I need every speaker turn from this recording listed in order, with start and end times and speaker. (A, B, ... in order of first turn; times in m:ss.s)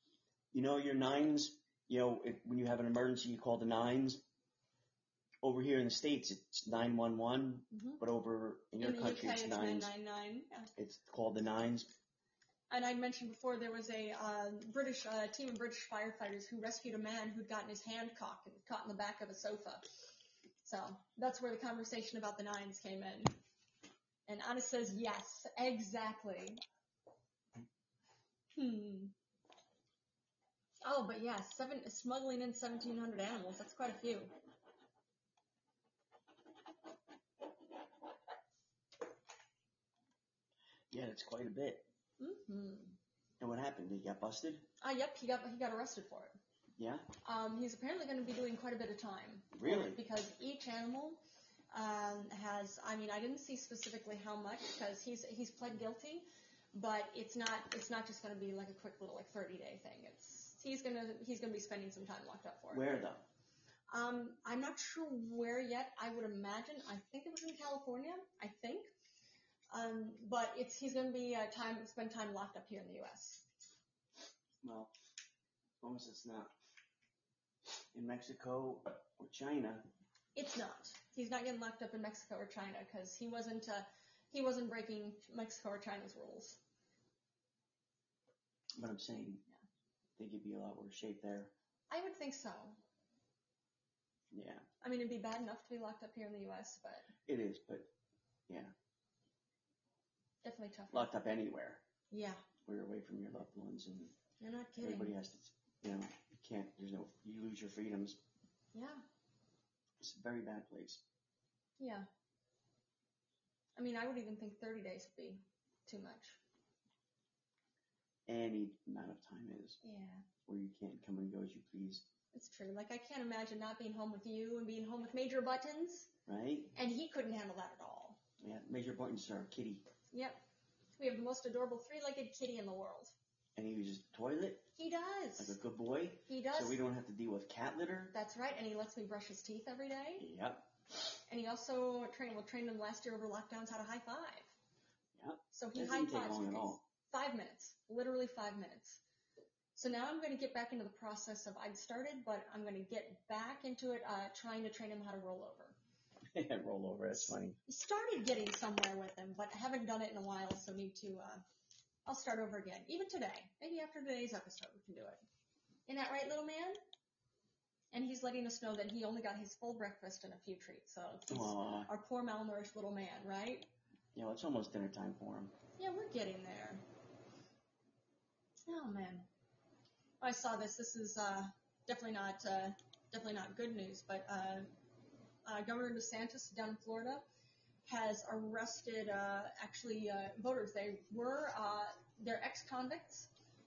0:00.5-0:04.2 A
0:05.4-0:09.9 A
0:07.7-0:08.0 B
0:08.8-0:10.7 B
0:10.8-0:11.9 A
0:12.7-0:19.8 B
0:20.6-0:23.4 B
0:24.3-0:26.6 B
0:28.5-0:29.1 B
0:30.8-0:34.3 B
0:40.9-0:41.9 A
0:42.2-0:43.0 B
0:43.4-0:44.6 A
0:44.8-0:46.4 B
0:46.8-0:47.1 A
0:47.2-1:02.8 B
0:49.5-0:50.0 A
1:02.7-1:03.2 A
1:03.9-1:08.9 B
1:09.7-1:13.4 B
1:14.6-1:14.9 A
1:15.8-1:16.5 A
1:17.9-1:19.9 A
1:20.3-1:26.6 B
1:28.8-1:29.4 A
1:30.2-1:31.5 A
1:31.9-1:32.8 B
1:34.3-1:34.6 A
1:34.8-1:37.1 B
1:37.2-1:37.9 A
1:38.5-1:38.7 A
1:40.4-1:41.1 B
1:40.9-1:41.8 A
1:42.1-1:42.4 B
1:42.6-1:44.1 A
1:44.4-1:45.1 B
1:44.8-1:48.2 A
1:48.7-1:49.0 B
1:50.0-1:51.0 A
1:51.8-1:52.1 B
1:53.8-1:56.4 B
1:58.3-1:59.8 A
1:59.8-2:00.2 B
2:00.4-2:02.0 A
2:02.3-2:06.1 B
2:06.2-2:06.7 A
2:06.7-2:08.2 B
2:08.4-2:09.8 A
2:10.1-2:10.4 B
2:11.0-2:13.1 B
2:13.6-2:14.7 A
2:14.8-2:15.6 B
2:15.4-2:18.1 A
2:16.3-2:16.8 B
2:18.1-2:20.3 B
2:20.2-2:20.7 A
2:21.3-2:24.5 B
2:25.2-2:26.8 A
2:25.5-2:29.0 B
2:29.7-2:35.8 B
2:36.3-2:37.6 A
2:37.6-2:41.4 B
2:42.0-2:45.2 B
2:45.9-2:46.8 B
2:47.9-2:53.7 B
2:51.3-2:51.9 A
2:54.1-2:55.5 A
2:55.8-2:56.8 B
2:58.7-2:59.3 B
3:00.2-3:04.7 B
3:05.4-3:07.2 B
3:07.8-3:13.3 B